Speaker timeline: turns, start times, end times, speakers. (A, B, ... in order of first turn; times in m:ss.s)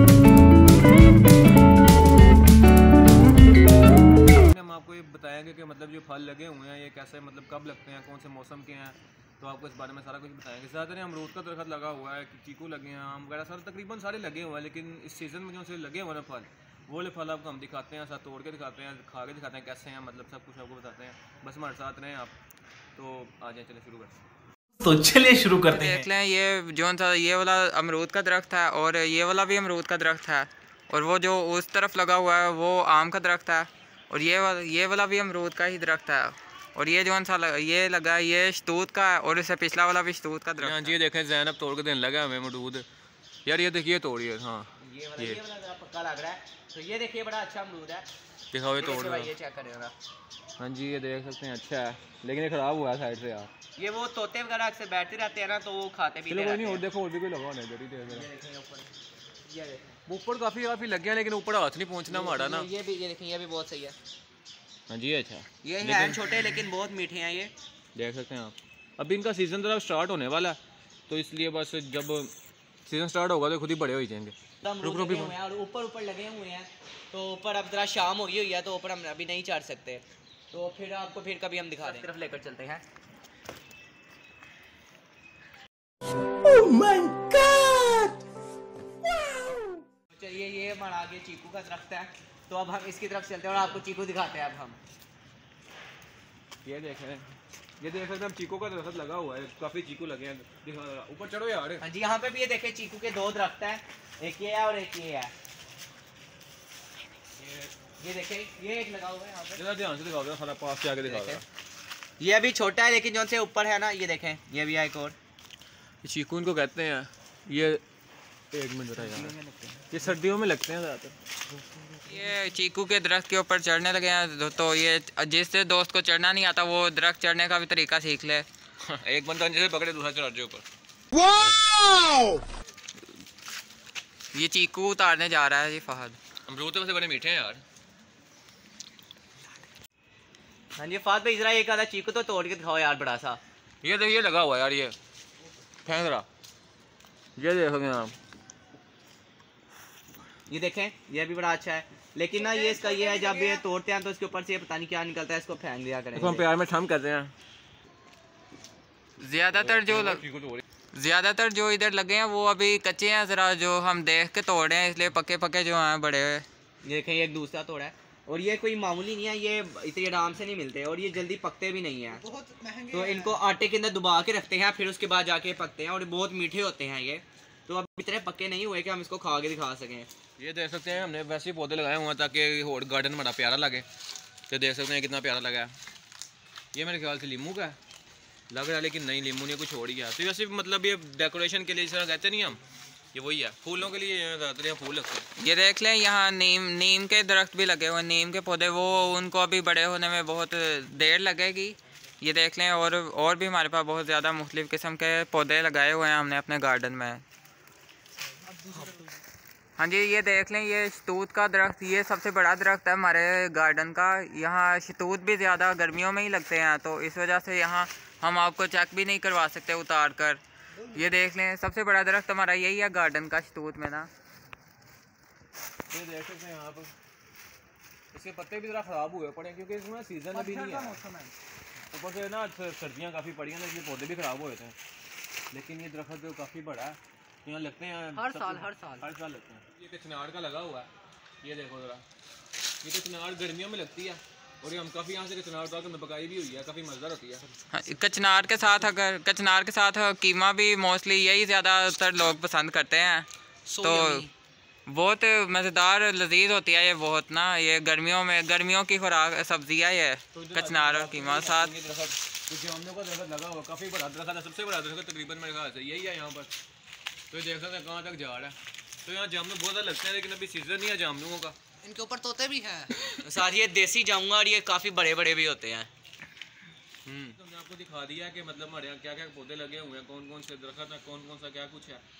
0:04.1-0:22.3 A
0:23.0-0:24.2 A
0:24.8-0:26.0 B
0:25.7-0:41.0 C
0:40.6-0:42.8 A
0:43.4-0:45.4 A
0:44.8-0:48.1 D
0:48.5-0:49.3 A
0:48.8-0:49.9 D
0:50.6-0:53.5 A
0:53.8-0:56.8 D
0:56.3-0:58.3 A
0:58.0-0:58.9 D
0:59.4-1:00.0 D
1:00.0-1:02.7 A
1:02.1-1:04.0 D
1:04.9-1:06.2 A
1:05.6-1:07.5 D
1:08.0-1:12.3 A
1:12.8-1:15.3 A
1:14.6-1:22.8 D
1:26.4-1:28.2 B
1:30.1-1:34.8 D
1:36.6-1:41.8 A
1:41.8-1:45.3 D
1:47.4-1:47.7 A
1:48.0-1:49.6 D
1:49.6-1:51.4 A
1:51.0-1:51.4 D
1:52.2-1:55.2 D
1:56.0-1:57.8 A
1:58.5-1:59.3 A
1:59.0-1:59.9 D
1:59.9-2:01.2 A
2:02.1-2:08.5 C
2:08.8-2:10.6 A
2:14.3-2:16.2 C
2:16.5-2:17.6 A
2:20.8-2:23.4 D
2:23.8-2:25.0 A
2:25.8-2:26.3 A
2:27.4-2:28.1 A
2:30.5-2:36.4 D
2:32.4-2:33.6 B
2:36.1-2:37.3 A
2:39.2-2:40.2 C
2:39.5-2:40.6 A
2:40.9-2:46.4 C
2:46.8-2:52.2 D
2:52.2-2:53.3 B
2:52.9-3:00.1 D
3:00.4-3:03.9 A
3:04.5-3:05.7 A
3:06.7-3:07.8 A
3:08.5-3:12.6 A
3:13.1-3:15.3 A
3:15.4-3:27.2 C
3:29.8-3:44.1 C
3:45.9-3:46.9 A
3:48.1-3:51.0 A
3:50.4-3:51.3 B
3:51.9-3:54.8 A
3:55.5-4:00.9 A
3:58.2-3:59.0 D
4:01.4-4:02.0 A
4:02.8-4:07.4 A
4:07.7-4:14.3 C
4:13.7-4:14.3 B
4:14.9-4:21.7 C
4:20.3-4:26.5 A
4:27.3-4:31.6 A
4:31.8-4:35.9 D
4:37.1-4:42.0 A